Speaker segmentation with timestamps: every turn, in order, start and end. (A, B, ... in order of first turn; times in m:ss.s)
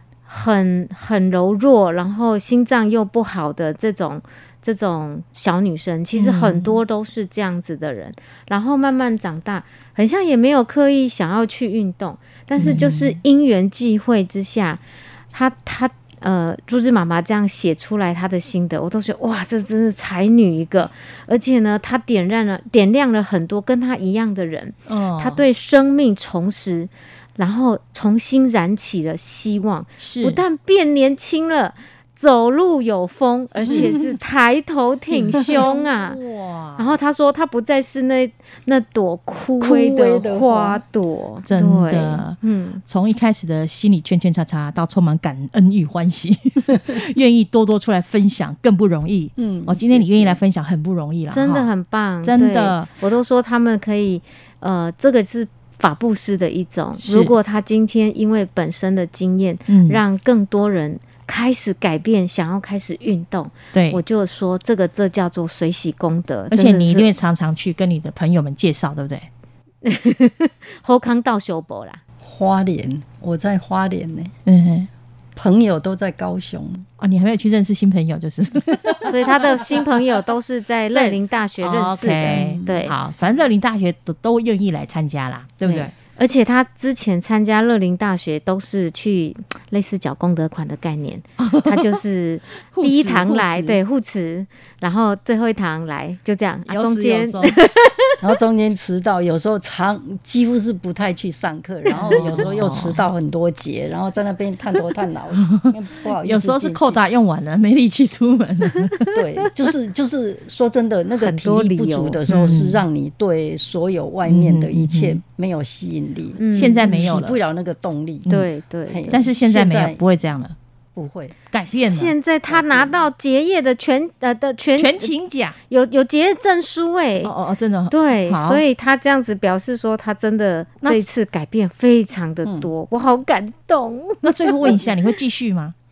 0:00.3-0:36.2 A
0:06.2-0:06.8 B
0:12.6-0:13.2 B
0:24.9-0:25.4 B
0:30.0-0:30.4 B
0:33.6-0:33.9 B
0:33.6-0:34.0 C
0:35.3-0:36.9 B
0:36.8-0:42.8 A
0:39.6-0:40.8 C
0:41.5-0:51.7 B
0:49.4-0:50.4 C
0:51.3-1:07.1 A
0:52.2-0:52.9 B
0:57.0-0:57.3 B
0:59.7-1:00.0 B
1:03.7-1:04.0 B
1:06.5-1:09.3 B
1:09.8-1:12.0 A
1:12.2-1:14.3 C
1:14.5-1:14.9 B
1:15.4-1:16.9 C
1:17.0-1:19.3 B
1:19.0-1:23.0 A
1:20.9-1:25.9 B
1:25.6-1:38.2 A
1:31.4-1:32.0 B
1:32.7-1:33.8 B
1:36.7-1:37.6 B
1:38.2-1:47.0 C
1:42.0-1:43.0 B
1:45.4-1:49.2 B
1:49.1-1:58.3 C
1:51.2-1:52.2 A
1:52.3-1:52.8 B
1:54.3-1:55.2 B
1:56.4-1:57.1 A
1:56.5-1:57.4 B
1:58.3-1:59.1 A
1:58.9-2:00.0 C
1:59.1-2:00.6 B
2:01.0-2:01.4 C
2:01.5-2:02.2 B
2:01.7-2:05.1 A
2:02.5-2:03.0 C
2:04.8-2:05.6 B
2:05.7-2:07.3 A
2:07.2-2:08.6 B
2:07.9-2:14.8 A
2:12.4-2:12.7 C
2:14.2-2:15.8 B